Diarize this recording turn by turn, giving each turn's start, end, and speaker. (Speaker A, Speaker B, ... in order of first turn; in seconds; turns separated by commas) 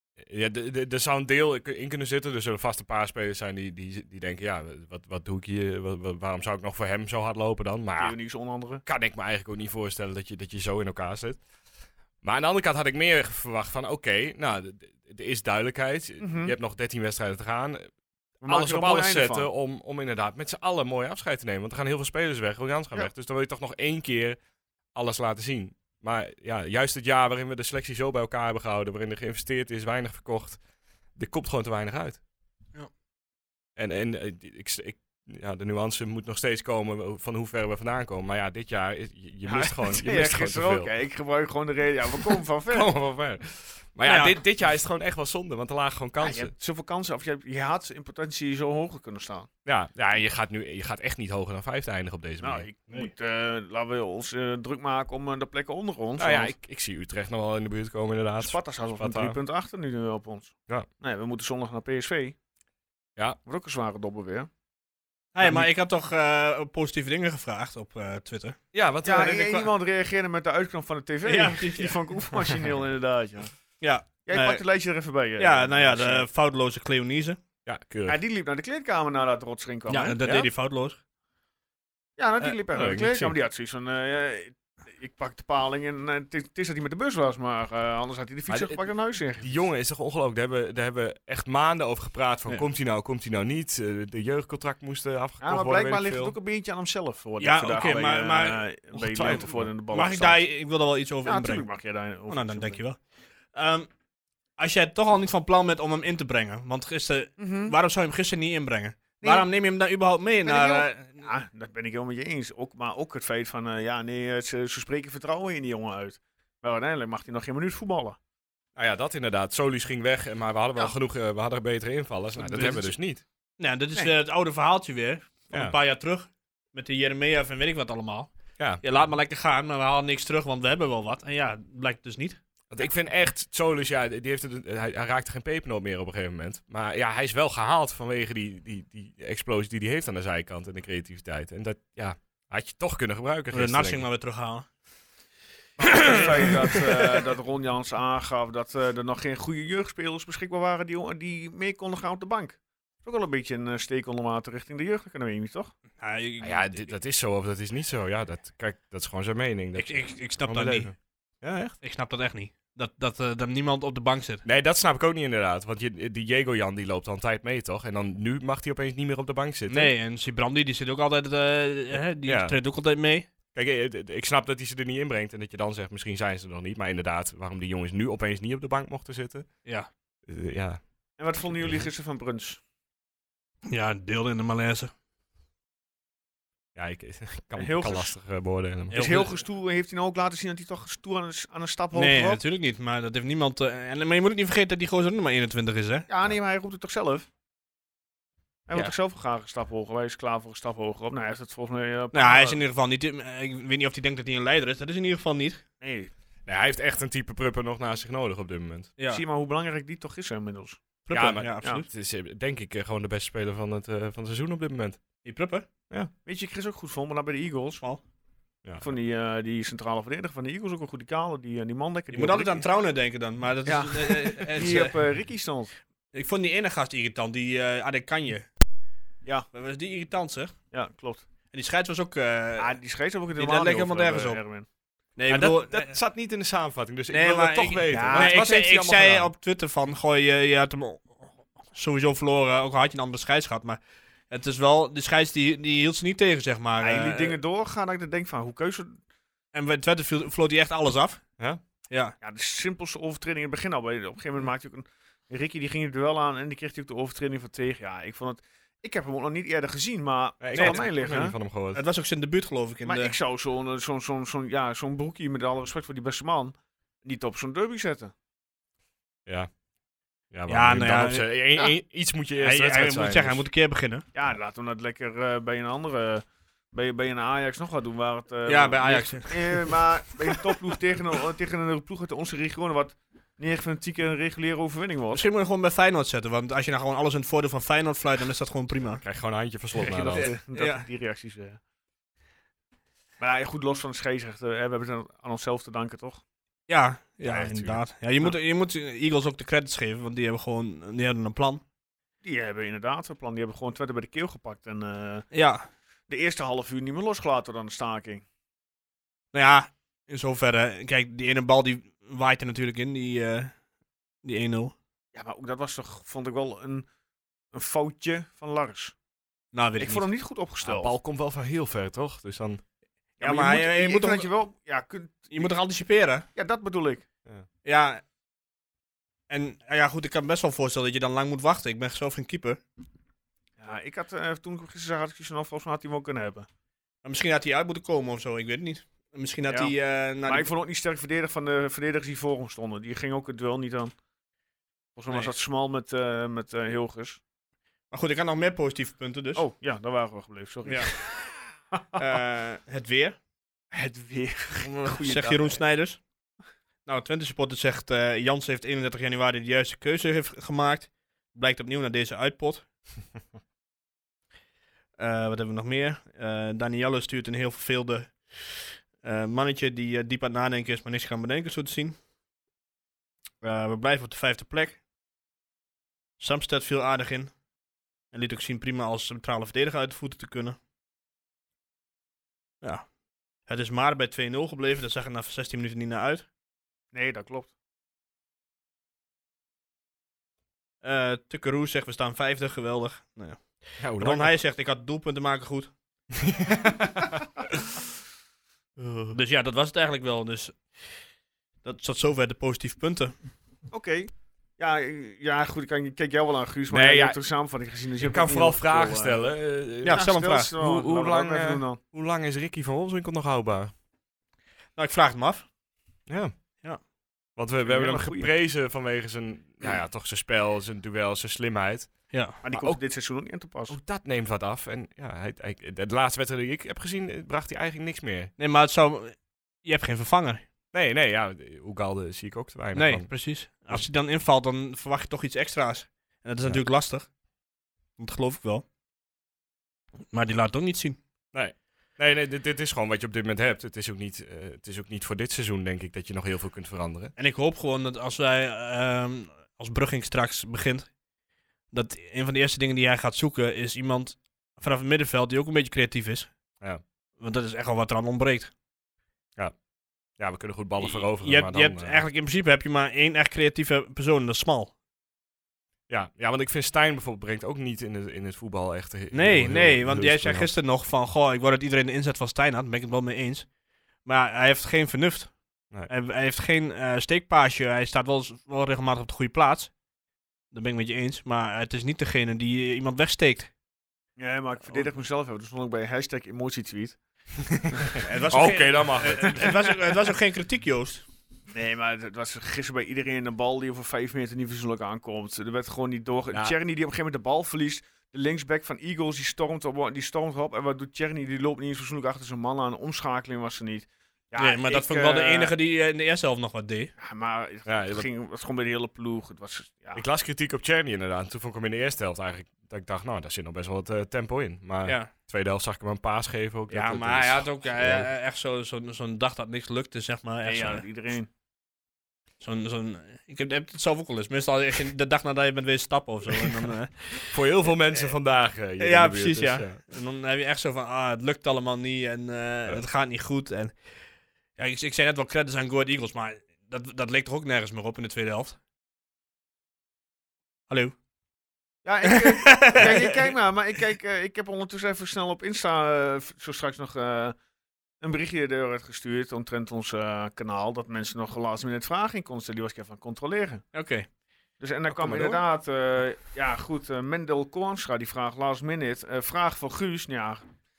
Speaker A: 0.2-8.1, Speaker B: 8.0-8.8, Speaker A: 8.8-11.4, Speaker A: 12.2-17.9, Speaker B: 16.2-16.5, Speaker B: 18.4-19.5, Speaker A: 18.4-24.4, Speaker A: 24.9-30.6, Speaker A: 31.1-32.2, Speaker A: 33.8-40.9, Speaker B: 39.4-42.9, Speaker A: 42.2-46.5, Speaker C: 44.0-44.4, Speaker B: 46.2-49.5, Speaker A: 49.6-52.7, Speaker B: 52.4-56.5, Speaker A: 56.2-59.4, Speaker B: 58.4-62.3, Speaker B: 63.4-64.5, Speaker C: 65.3-68.6, Speaker A: 65.4-65.7, Speaker A: 68.7-69.7, Speaker B: 69.0-73.5, Speaker C: 71.2-72.0, Speaker C: 73.8-74.6, Speaker B: 74.2-76.3, Speaker C: 75.4-77.4, Speaker A: 77.7-78.2, Speaker B: 78.0-80.2, Speaker C: 79.9-81.0, Speaker A: 80.2-80.5, Speaker B: 82.2-89.6, Speaker A: 82.7-83.3, Speaker A: 88.5-88.8, Speaker A: 89.4-96.3, Speaker B: 95.4-100.4, Speaker C: 97.4-98.6, Speaker A: 98.9-99.7, Speaker C: 99.9-101.7, Speaker B: 101.2-102.8, Speaker C: 102.3-103.0, Speaker C: 103.5-103.9, Speaker C: 104.6-111.3, Speaker B: 107.4-107.7, Speaker B: 109.2-109.5, Speaker B: 110.4-118.2, Speaker A: 118.8-123.2, Speaker C: 122.4-122.9, Speaker C: 123.6-132.4, Speaker A: 132.7-144.0, Speaker C: 143.5-144.7, Speaker B: 145.8-155.7, Speaker C: 145.8-147.2, Speaker C: 156.0-156.9, Speaker A: 156.4-161.8, Speaker C: 159.8-160.9, Speaker C: 161.8-164.4, Speaker A: 164.4-169.9, Speaker C: 169.7-173.3, Speaker A: 172.2-172.5, Speaker A: 173.5-179.5, Speaker A: 180.2-180.8, Speaker B: 181.2-182.6, Speaker C: 183.7-184.9, Speaker A: 186.7-189.1, Speaker B: 187.5-188.1, Speaker C: 188.9-189.3, Speaker B: 188.9-192.4, Speaker C: 191.9-196.1, Speaker B: 196.1-197.3, Speaker B: 198.7-202.6, Speaker C: 202.1-205.6, Speaker B: 205.8-206.1, Speaker A: 206.4-208.9, Speaker C: 209.0-209.2, Speaker B: 209.1-210.8, Speaker C: 211.1-211.8, Speaker A: 211.1-215.0, Speaker C: 215.2-215.7, Speaker B: 216.2-217.8, Speaker B: 218.8-222.7, Speaker C: 222.1-224.9, Speaker B: 223.7-225.7, Speaker C: 226.1-228.5, Speaker C: 229.5-230.5, Speaker B: 230.7-231.2, Speaker C: 231.5-232.8, Speaker B: 232.6-234.7, Speaker C: 233.3-234.4, Speaker C: 235.2-235.9, Speaker A: 235.3-239.3, Speaker C: 237.1-247.4, Speaker B: 237.9-238.3, Speaker B: 246.8-249.0, Speaker C: 249.5-251.2, Speaker C: 251.9-252.1, Speaker B: 252.2-261.3, Speaker A: 260.4-261.8, Speaker C: 260.5-260.9, Speaker C: 261.7-263.1, Speaker B: 262.8-268.1, Speaker A: 270.3-273.4, Speaker C: 270.5-271.3, Speaker C: 272.4-274.0, Speaker B: 274.1-285.2, Speaker C: 278.5-280.4, Speaker C: 285.1-289.0, Speaker A: 289.0-290.3, Speaker B: 289.8-291.6, Speaker C: 290.1-290.9, Speaker B: 293.2-296.2, Speaker C: 296.7-301.6, Speaker A: 297.3-297.8, Speaker B: 302.2-305.3, Speaker C: 305.3-305.7, Speaker B: 306.1-308.2, Speaker C: 309.3-313.5, Speaker C: 314.2-314.7, Speaker B: 315.1-316.9, Speaker B: 317.5-318.9, Speaker C: 319.5-320.1, Speaker B: 319.8-320.9, Speaker A: 320.6-322.6, Speaker B: 323.2-325.5, Speaker C: 323.2-324.3, Speaker C: 325.3-326.2, Speaker B: 326.3-327.0, Speaker C: 327.6-328.0, Speaker C: 329.3-332.6, Speaker B: 333.6-336.5, Speaker C: 337.0-340.5, Speaker B: 339.5-343.9, Speaker B: 344.9-347.2, Speaker C: 347.9-349.4, Speaker B: 349.3-352.0, Speaker C: 350.6-350.9, Speaker C: 351.9-353.2, Speaker B: 353.7-355.6, Speaker C: 354.8-356.0, Speaker C: 356.8-362.7, Speaker C: 365.0-371.9, Speaker C: 373.4-374.8, Speaker C: 376.2-377.3, Speaker C: 378.1-380.6, Speaker C: 382.6-382.9, Speaker C: 383.4-386.2, Speaker B: 386.9-387.5, Speaker C: 390.8-395.7, Speaker A: 393.8-394.4, Speaker A: 396.1-397.6, Speaker A: 398.8-399.2, Speaker C: 399.1-400.8, Speaker C: 401.6-403.1, Speaker B: 403.7-409.2, Speaker A: 406.7-407.2, Speaker A: 408.0-413.7, Speaker C: 409.8-410.5, Speaker B: 409.9-411.8, Speaker C: 414.8-415.4, Speaker A: 416.1-416.3, Speaker A: 417.4-422.8, Speaker B: 417.6-418.3, Speaker C: 422.1-422.4, Speaker B: 422.4-423.8, Speaker A: 423.7-428.3, Speaker C: 428.4-430.4, Speaker A: 430.7-433.1, Speaker C: 432.7-437.1, Speaker C: 438.0-438.6, Speaker C: 440.1-441.0, Speaker A: 441.3-447.1, Speaker C: 447.1-450.9, Speaker C: 451.7-456.3, Speaker C: 457.2-458.5, Speaker A: 460.2-462.0, Speaker C: 460.8-464.7, Speaker A: 465.9-470.5, Speaker C: 469.1-473.5, Speaker C: 474.0-479.7, Speaker C: 480.5-483.5, Speaker B: 484.2-487.0, Speaker A: 487.5-489.6, Speaker B: 487.8-488.2, Speaker C: 488.0-491.0, Speaker B: 489.2-489.5, Speaker B: 491.5-505.5, Speaker C: 504.4-506.9, Speaker B: 507.0-510.0, Speaker A: 507.6-508.1, Speaker A: 509.9-518.1, Speaker C: 514.8-515.1, Speaker C: 516.7-520.8, Speaker B: 520.4-521.3, Speaker C: 522.4-527.3, Speaker A: 527.3-529.8, Speaker C: 528.8-533.8, Speaker C: 534.6-538.6, Speaker C: 540.7-540.9, Speaker B: 541.8-547.4, Speaker C: 542.0-543.3, Speaker B: 548.0-553.6, Speaker C: 553.7-554.1, Speaker B: 554.6-560.5, Speaker A: 554.9-555.4